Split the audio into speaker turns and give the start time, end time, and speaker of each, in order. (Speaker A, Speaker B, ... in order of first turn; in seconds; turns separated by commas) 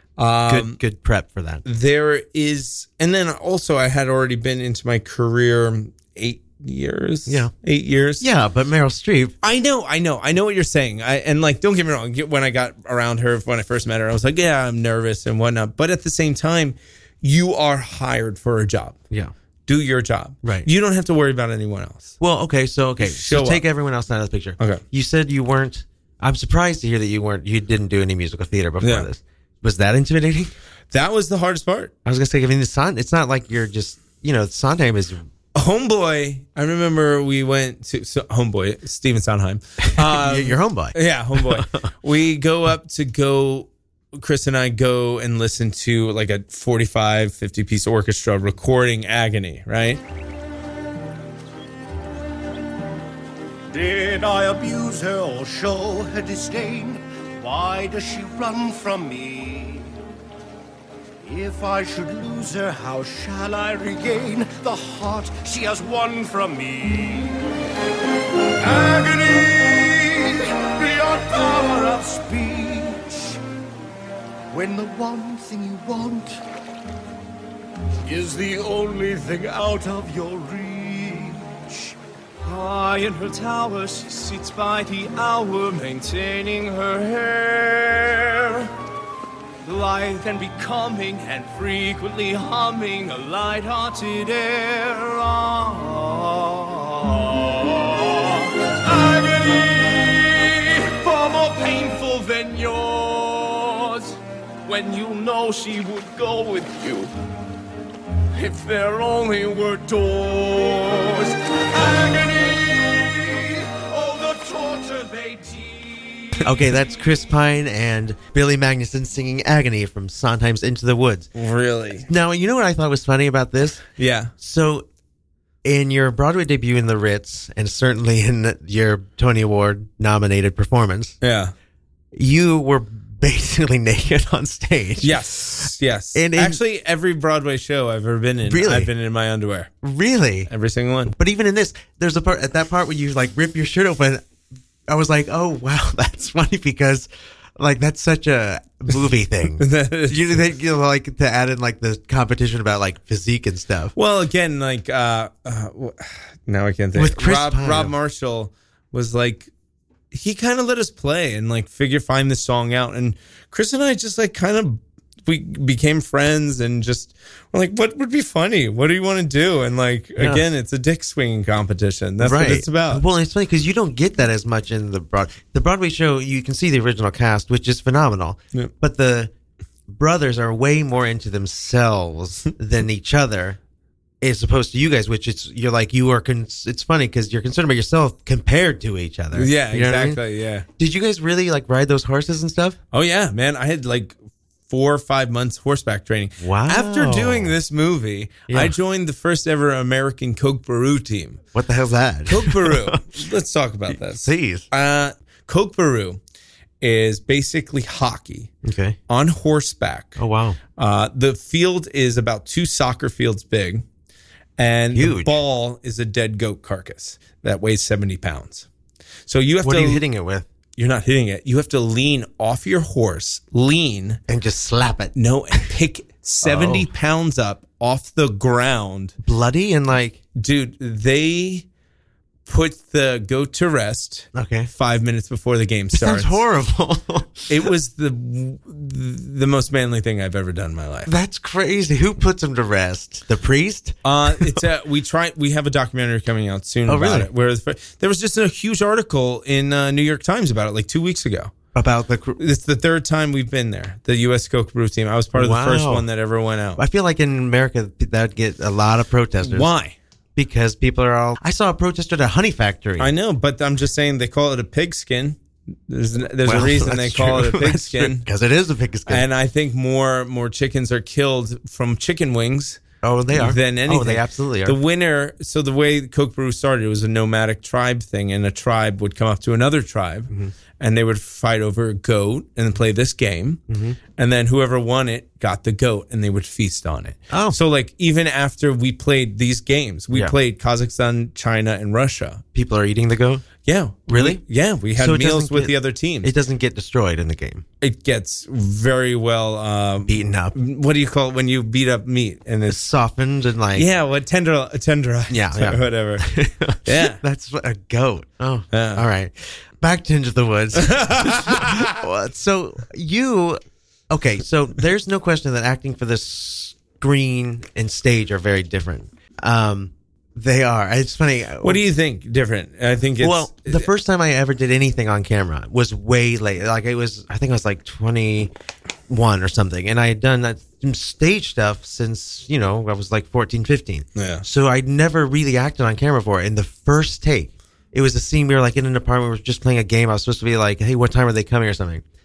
Speaker A: 0.2-0.8, Speaker B: 0.5-1.6, Speaker A: 1.6-8.2, Speaker B: 8.2-9.3, Speaker A: 9.4-19.0, Speaker A: 19.7-22.1, Speaker B: 20.4-20.7, Speaker B: 22.2-30.5, Speaker A: 23.0-23.6, Speaker A: 28.8-29.1, Speaker A: 30.9-31.9, Speaker B: 32.0-35.2, Speaker A: 35.5-50.0, Speaker B: 39.9-41.8, Speaker C: 53.7-59.9, Speaker C: 61.2-67.4, Speaker D: 68.6-70.0, Speaker C: 68.7-73.4, Speaker C: 74.5-76.4, Speaker D: 78.1-81.1, Speaker C: 78.1-80.7, Speaker C: 81.2-81.5, Speaker A: 82.5-88.7, Speaker A: 89.7-96.2, Speaker D: 96.0-107.1, Speaker D: 108.3-116.4, Speaker B: 116.4-121.3, Speaker A: 121.3-122.1, Speaker B: 122.1-123.8, Speaker A: 124.0-124.3, Speaker B: 124.4-124.9, Speaker B: 125.6-131.2, Speaker A: 131.2-131.5, Speaker B: 132.1-136.6, Speaker A: 135.0-139.7, Speaker B: 138.5-138.9, Speaker B: 139.8-140.5, Speaker A: 140.5-141.1, Speaker B: 141.2-144.2, Speaker B: 144.9-153.9, Speaker A: 149.6-150.4, Speaker A: 153.9-159.5, Speaker B: 156.9-157.9, Speaker A: 160.1-173.1, Speaker B: 170.2-170.4, Speaker B: 172.2-179.3, Speaker B: 179.9-183.6, Speaker B: 184.2-190.2, Speaker A: 189.3-190.7, Speaker B: 190.8-192.8, Speaker A: 192.9-194.2, Speaker A: 194.7-201.4, Speaker B: 196.4-197.6, Speaker B: 198.5-198.7, Speaker B: 201.5-203.0, Speaker A: 202.3-206.2, Speaker B: 203.9-204.7, Speaker A: 206.8-208.5, Speaker B: 208.6-209.0, Speaker A: 209.1-210.2, Speaker B: 210.2-210.6, Speaker A: 210.8-213.8, Speaker A: 214.6-218.7, Speaker B: 214.9-215.4, Speaker A: 219.3-220.0, Speaker B: 219.6-220.5, Speaker A: 220.8-224.2, Speaker B: 224.3-225.6, Speaker A: 225.1-229.1, Speaker B: 226.4-226.9, Speaker B: 229.2-230.2, Speaker A: 230.4-231.6, Speaker A: 232.5-236.4, Speaker B: 234.3-234.7, Speaker B: 235.9-237.7, Speaker A: 237.5-241.1, Speaker B: 241.1-244.6, Speaker A: 244.0-251.5, Speaker B: 246.9-247.3, Speaker B: 251.7-252.4, Speaker A: 252.4-256.8, Speaker B: 255.3-256.1, Speaker B: 256.8-259.7, Speaker A: 259.4-259.9, Speaker B: 260.4-263.1, Speaker A: 263.0-268.2, Speaker B: 266.4-269.2, Speaker A: 269.1-272.8, Speaker B: 273.0-274.8, Speaker A: 273.3-283.6, Speaker B: 283.7-284.0, Speaker A: 284.1-292.4, Speaker B: 287.3-287.6, Speaker B: 292.5-293.5, Speaker A: 293.6-296.3, Speaker B: 294.1-294.4, Speaker B: 294.9-297.6, Speaker A: 297.8-302.8, Speaker B: 300.1-300.5, Speaker B: 302.7-303.9, Speaker A: 303.7-306.3, Speaker B: 305.3-321.8, Speaker A: 306.8-307.2, Speaker A: 308.7-309.0, Speaker A: 310.8-311.9, Speaker A: 321.6-323.9, Speaker B: 323.2-328.5, Speaker B: 329.1-342.0, Speaker A: 334.1-334.4